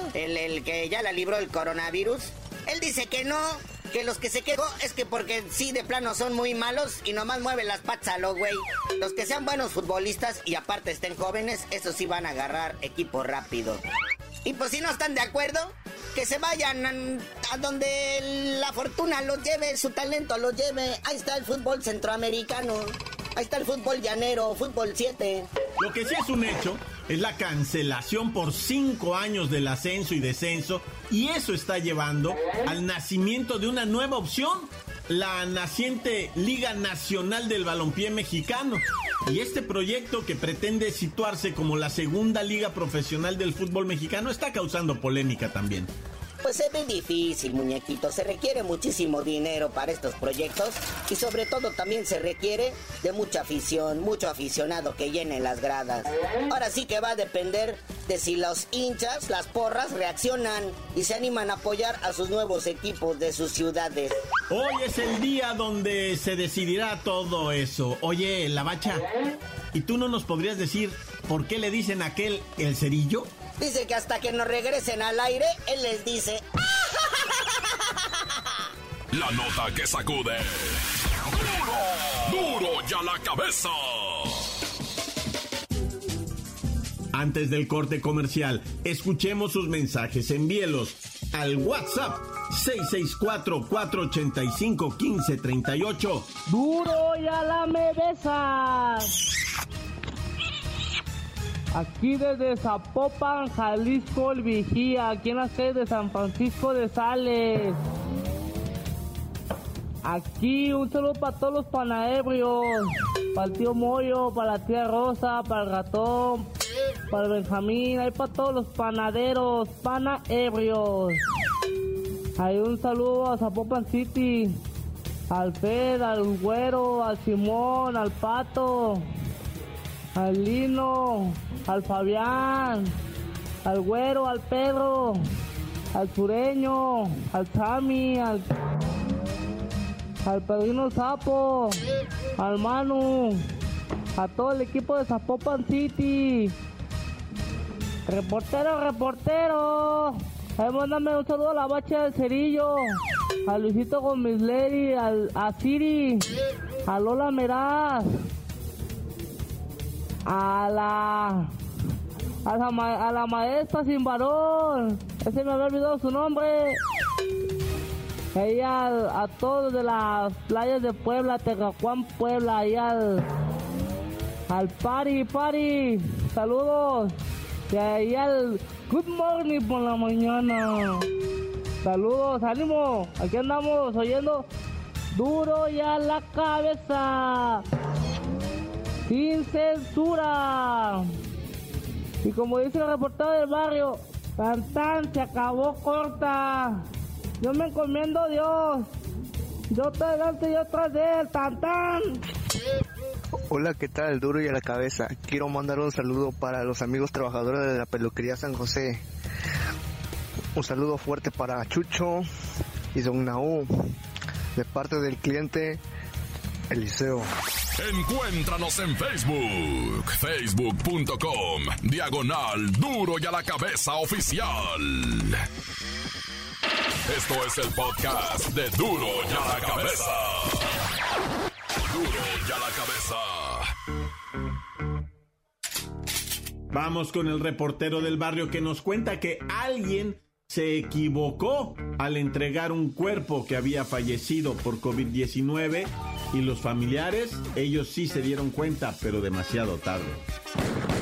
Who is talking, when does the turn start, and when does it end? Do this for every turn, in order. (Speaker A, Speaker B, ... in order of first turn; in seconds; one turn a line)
Speaker A: 0.1-13.8
Speaker A: 14.4-25.5
Speaker B: 25.8-45.9
Speaker A: 46.4-64.2
Speaker B: 64.5-69.0
Speaker B: 69.7-73.3
Speaker A: 73.6-76.4
Speaker A: 77.0-78.6
Speaker C: 79.1-84.4
Speaker B: 87.1-96.3
Speaker D: 96.5-99.2
Speaker D: 101.7-107.8
Speaker D: 110.0-116.5
Speaker D: 117.1-121.2
Speaker D: 122.4-124.5
Speaker D: 125.3-129.0
Speaker D: 130.2-132.9
Speaker D: 133.7-135.2
Speaker D: 135.9-138.5
Speaker D: 140.2-141.8
Speaker D: 142.4-143.4
Speaker D: 144.2-146.6
Speaker D: 148.1-156.3
Speaker D: 156.9-158.1
Speaker D: 160.3-161.5
Speaker D: 162.4-166.8
Speaker D: 168.3-173.3
Speaker D: 174.5-177.2
Speaker D: 177.7-181.1
Speaker D: 181.8-184.5
Speaker D: 185.1-187.6
Speaker D: 189.1-191.1
Speaker D: 192.2-196.8
Speaker D: 197.4-198.9
Speaker D: 199.7-202.2
Speaker E: 203.5-209.0
Speaker E: 210.6-212.3
Speaker E: 212.9-213.9
Speaker E: 214.6-215.8
Speaker E: 216.7-217.3
Speaker C: 217.8-225.4
Speaker C: 227.1-230.7
Speaker C: 231.9-233.7
Speaker B: 236.7-250.2